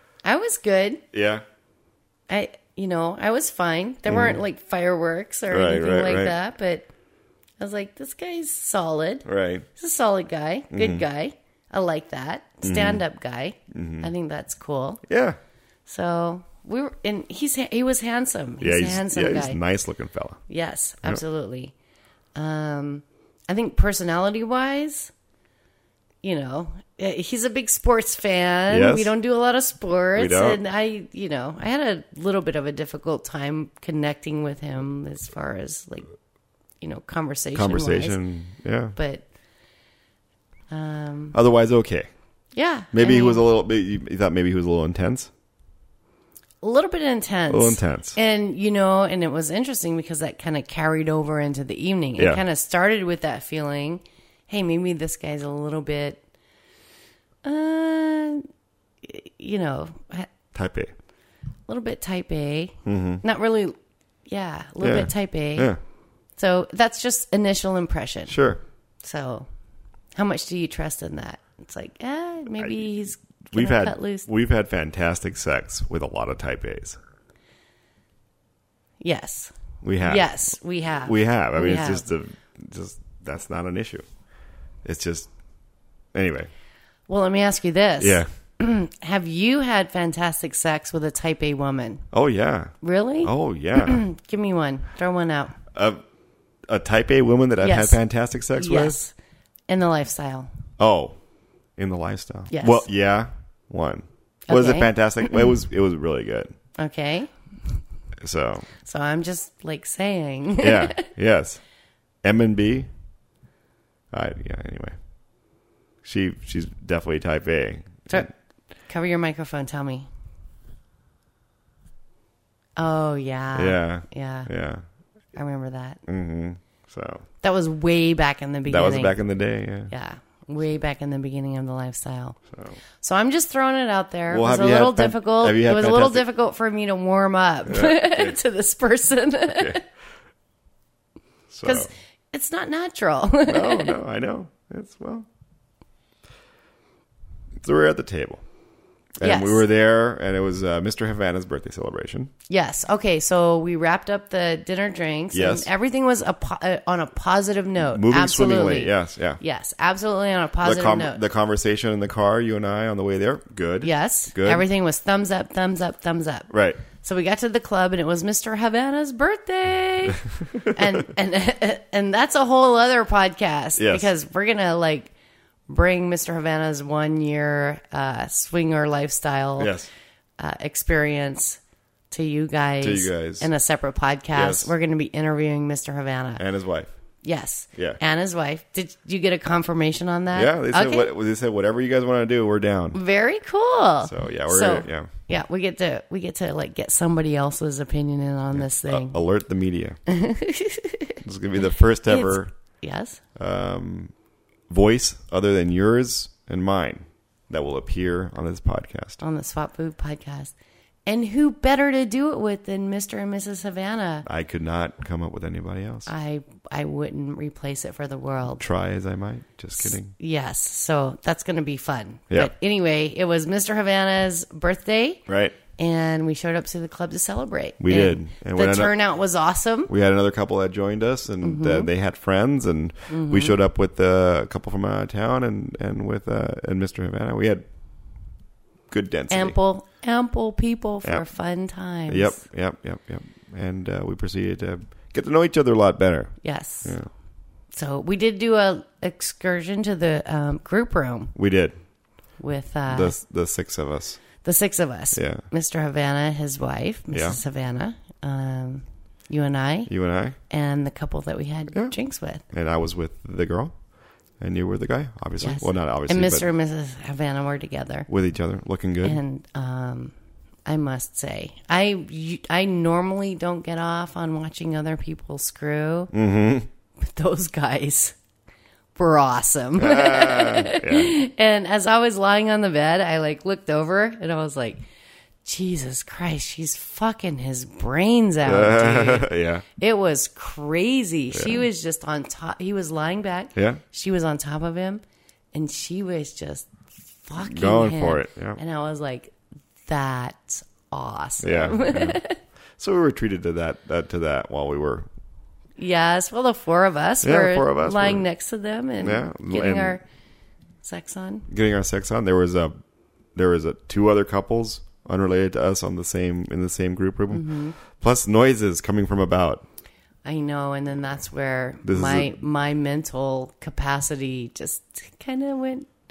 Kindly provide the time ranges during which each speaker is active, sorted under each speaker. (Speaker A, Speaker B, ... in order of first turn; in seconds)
Speaker A: 0.2-1.0, 2.3-6.9, 7.6-15.0, 15.9-19.6, 20.5-21.7, 22.4-25.1, 26.2-36.1, 36.8-38.2, 39.0-39.2, 40.7-41.4, 42.5-43.4, 46.6-56.2, 57.4-58.5, 59.0-60.3, 61.7-65.7, 66.4-68.4, 69.0-69.5, 70.2-74.3, 79.0-82.0, 87.1-92.0, 92.8-95.6, 97.6-98.0, 98.5-99.1, 99.7-100.5, 102.5-102.9, 104.5-105.5, 106.8-107.3, 108.8-111.1, 118.9-120.1, 122.8-124.5, 125.3-126.0, 127.4-129.2, 129.9-132.4, 133.0-139.8, 141.6-144.0, 149.2-149.7, 152.5-161.2, 163.8-175.1, 175.7-179.8, 180.4-181.6, 182.1-186.4, 187.2-191.1, 192.9-199.2, 200.1-201.2, 202.1-203.2, 209.2-210.5, 211.1-214.3, 216.1-218.7, 219.8-225.2, 225.8-229.9, 231.4-231.9, 233.1-233.6, 239.3-242.4, 246.4-247.0, 247.7-251.3, 252.4-253.2, 254.4-259.9, 260.5-262.4, 265.4-268.1, 269.0-270.1, 270.7-276.1, 277.0-278.2, 279.0-284.8, 285.4-295.0, 295.5-299.3, 299.9-302.4, 305.8-310.0, 310.8-311.5, 317.3-317.8, 320.2-325.9
Speaker B: 1.1-1.4, 4.1-4.4, 5.5-6.3, 9.2-9.7, 10.7-11.0, 12.6-13.0, 13.7-14.1, 15.1-15.4, 18.6-20.4, 28.7-29.1, 30.1-30.6, 37.5-39.0, 41.3-42.1, 42.9-45.3, 47.5-48.2, 52.2-52.4, 60.5-60.9, 62.9-63.2, 64.8-65.8, 68.3-68.6, 73.5-77.0, 79.8-80.5, 81.0-84.0, 84.8-85.3, 86.1-86.5, 88.0-88.3, 92.1-94.0, 95.7-96.0, 96.7-99.0, 100.8-101.2, 101.8-106.5, 108.2-108.7, 110.6-111.6, 112.2-112.9, 114.1-115.0, 116.0-118.3, 123.5-124.8, 126.1-127.2, 128.7-129.9, 134.3-136.2, 137.7-138.4, 139.5-139.8, 141.5-141.9, 143.5-145.3, 147.6-148.4, 149.2-152.3, 155.3-155.7, 157.8-159.4, 160.6-164.7, 166.5-166.8, 170.5-171.0, 173.8-174.1, 179.6-179.9, 182.8-183.5, 184.3-184.7, 186.4-186.9, 190.3-193.0, 194.0-195.1, 198.5-200.0, 201.2-202.5, 203.4-204.1, 204.7-209.2, 214.3-216.1, 218.6-220.1, 225.3-225.6, 227.8-228.9, 229.9-237.6, 238.9-239.6, 242.1-247.1, 251.3-251.8, 252.9-254.2, 255.1-255.4, 257.1-257.4, 259.9-260.4, 262.5-263.7, 264.4-266.5, 268.1-269.2, 276.1-276.7, 279.8-281.2, 288.4-289.6, 291.3-291.6, 293.6-293.8, 297.4-298.6, 301.4-302.2, 302.8-305.1, 307.2-308.3, 309.0-310.0, 311.5-312.7, 313.4-319.6, 321.9-322.3